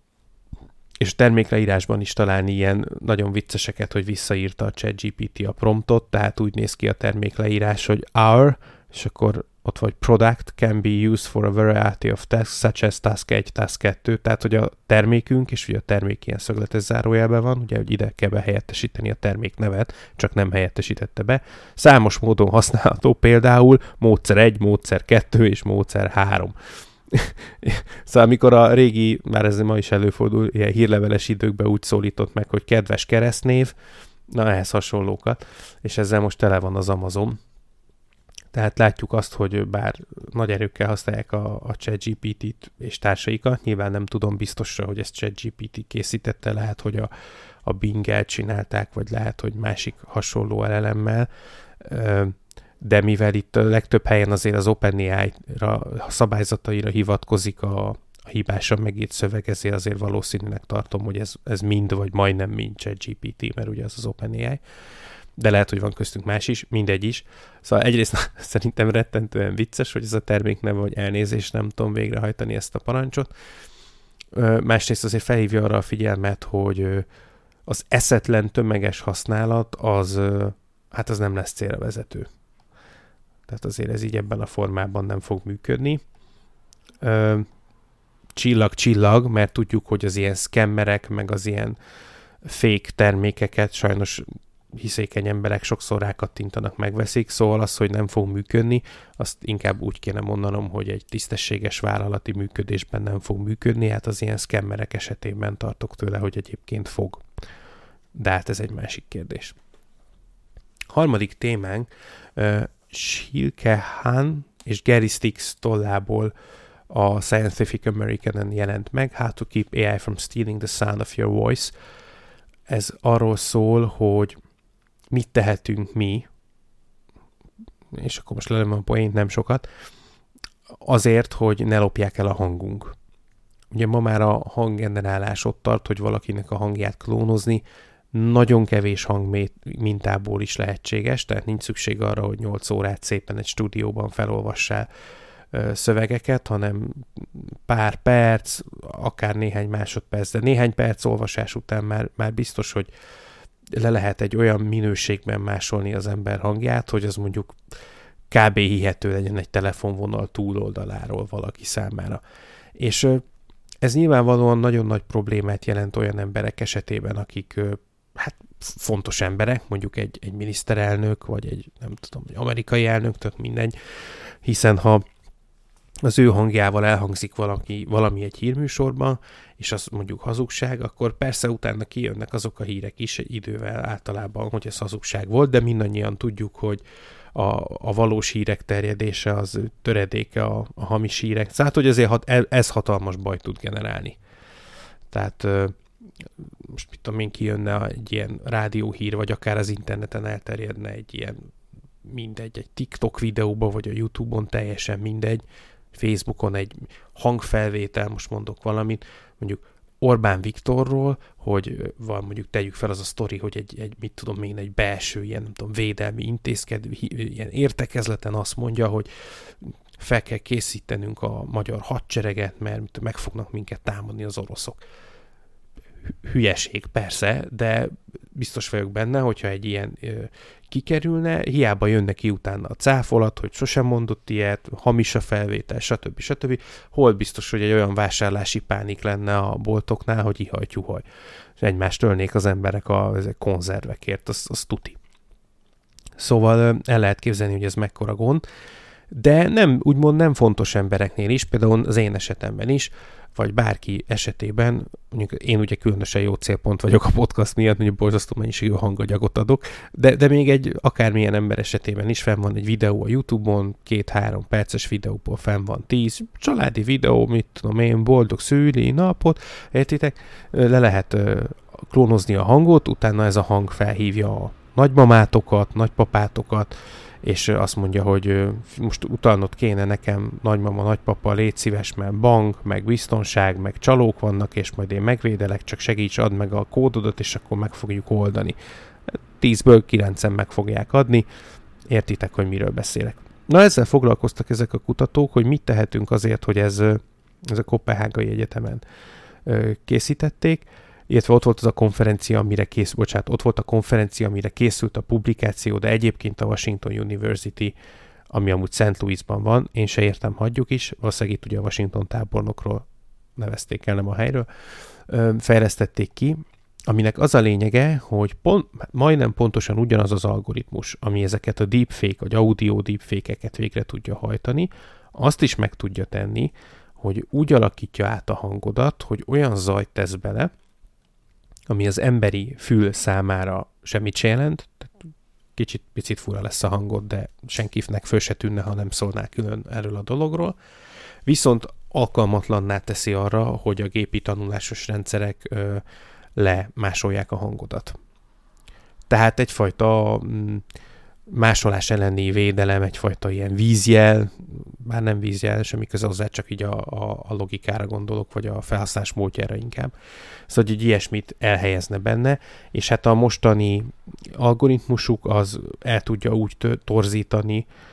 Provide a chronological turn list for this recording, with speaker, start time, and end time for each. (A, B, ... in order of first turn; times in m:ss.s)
0:01.0-0:26.5 A
0:27.1-0:33.7 A
0:34.3-0:37.4 A
0:38.5-0:47.1 A
0:47.6-0:51.3 A
0:51.8-1:04.6 A
1:05.4-1:13.3 A
1:14.3-1:17.0 A
1:17.6-1:22.3 A
1:23.5-1:26.0 A
1:27.0-1:27.5 A
1:28.3-1:31.8 A
1:32.4-1:47.2 A
1:48.1-1:49.6 A
1:50.9-1:56.3 A
1:56.9-2:01.7 A
2:02.7-2:04.4 A
2:05.1-2:06.3 A
2:07.9-2:09.6 A
2:10.8-2:12.9 A
2:13.7-2:24.9 A
2:25.5-2:32.9 A
2:33.7-2:37.5 A
2:38.3-2:42.2 A
2:42.8-2:43.2 A
2:43.8-2:53.7 A
2:54.4-2:55.0 A
2:56.0-3:06.8 A
3:07.3-3:14.2 A
3:15.1-3:15.8 A
3:16.6-3:21.4 A
3:22.0-3:39.1 A
3:39.6-3:44.8 A
3:46.1-4:01.0 A
4:01.6-4:05.0 A
4:06.2-4:08.4 A
4:09.1-4:48.6 A
4:49.1-4:51.3 A
4:51.9-4:58.8 A
4:59.4-5:07.7 A
5:08.3-5:14.5 A
5:15.1-5:30.5 A
5:31.7-5:34.9 A
5:35.6-5:40.6 A
5:41.2-5:45.8 A
5:46.4-5:48.0 A
5:49.1-5:50.6 A
5:51.3-5:59.9 A
6:00.5-6:07.7 A